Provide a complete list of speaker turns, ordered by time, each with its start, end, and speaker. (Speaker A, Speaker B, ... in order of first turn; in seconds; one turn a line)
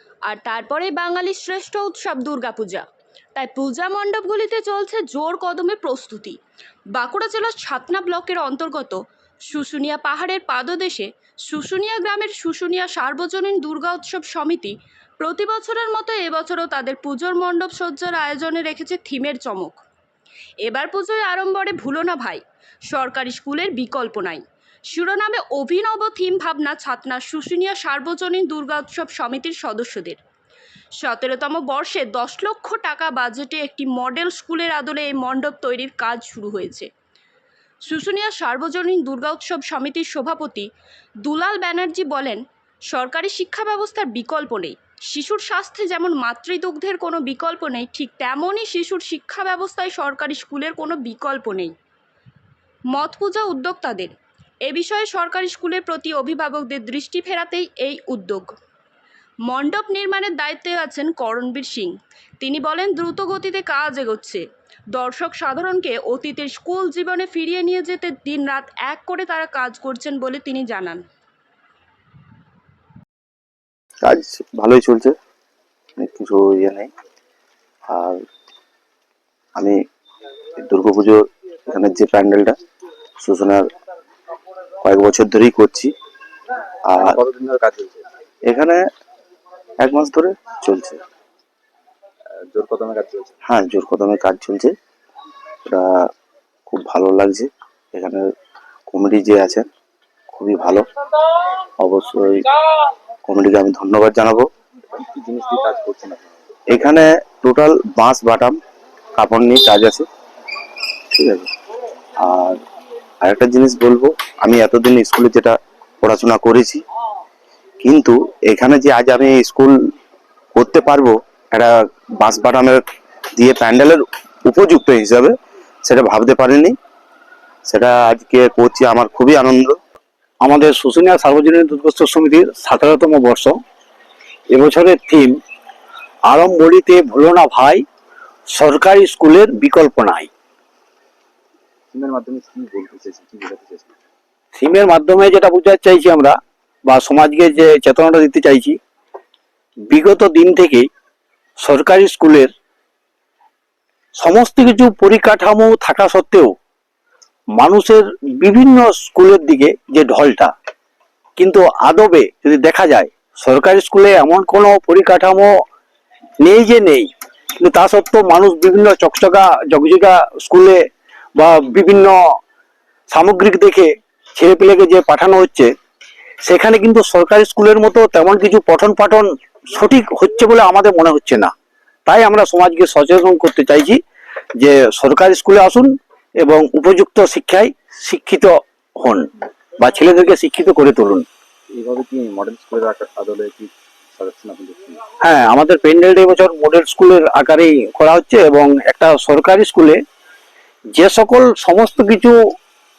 Speaker A: 0.3-2.8
Speaker A: 3.4-6.4
Speaker A: 6.9-19.8
Speaker A: 20.6-30.2
Speaker A: 31.0-36.9
Speaker A: 37.9-40.7
Speaker A: 41.2-51.7
Speaker A: 52.9-54.1
Speaker A: 54.6-58.5
Speaker A: 59.5-71.0
Speaker B: 74.0-75.1
Speaker B: 76.0-76.9
Speaker B: 77.9-78.2
Speaker B: 80.6-82.5
Speaker B: 83.2-83.7
Speaker B: 84.8-85.9
Speaker B: 86.9-87.2
Speaker C: 87.0-88.0
Speaker B: 88.5-88.8
Speaker B: 89.8-91.0
Speaker C: 92.5-93.3
Speaker B: 93.5-94.7
Speaker B: 95.7-96.0
Speaker B: 96.7-98.2
Speaker B: 98.9-99.6
Speaker B: 100.3-100.8
Speaker B: 101.8-102.4
Speaker B: 103.2-104.4
Speaker C: 104.9-106.6
Speaker B: 106.7-108.6
Speaker B: 109.2-110.1
Speaker B: 111.1-111.5
Speaker B: 112.2-112.6
Speaker B: 113.2-116.8
Speaker B: 117.8-119.8
Speaker B: 120.5-122.8
Speaker B: 123.4-125.3
Speaker B: 125.8-126.8
Speaker B: 127.7-129.8
Speaker D: 130.4-133.6
Speaker D: 134.5-135.3
Speaker D: 136.3-137.8
Speaker D: 138.5-140.3
Speaker C: 141.9-144.0
Speaker D: 144.6-148.8
Speaker D: 149.9-150.9
Speaker D: 151.6-152.5
Speaker D: 154.2-156.6
Speaker D: 157.6-160.5
Speaker D: 161.4-165.5
Speaker D: 166.4-170.8
Speaker D: 171.4-172.2
Speaker D: 173.1-175.7
Speaker D: 176.4-181.5
Speaker D: 182.1-184.0
Speaker D: 184.6-189.2
Speaker D: 189.8-191.2
Speaker C: 191.7-195.0
Speaker D: 195.2-200.0
Speaker D: 200.9-202.3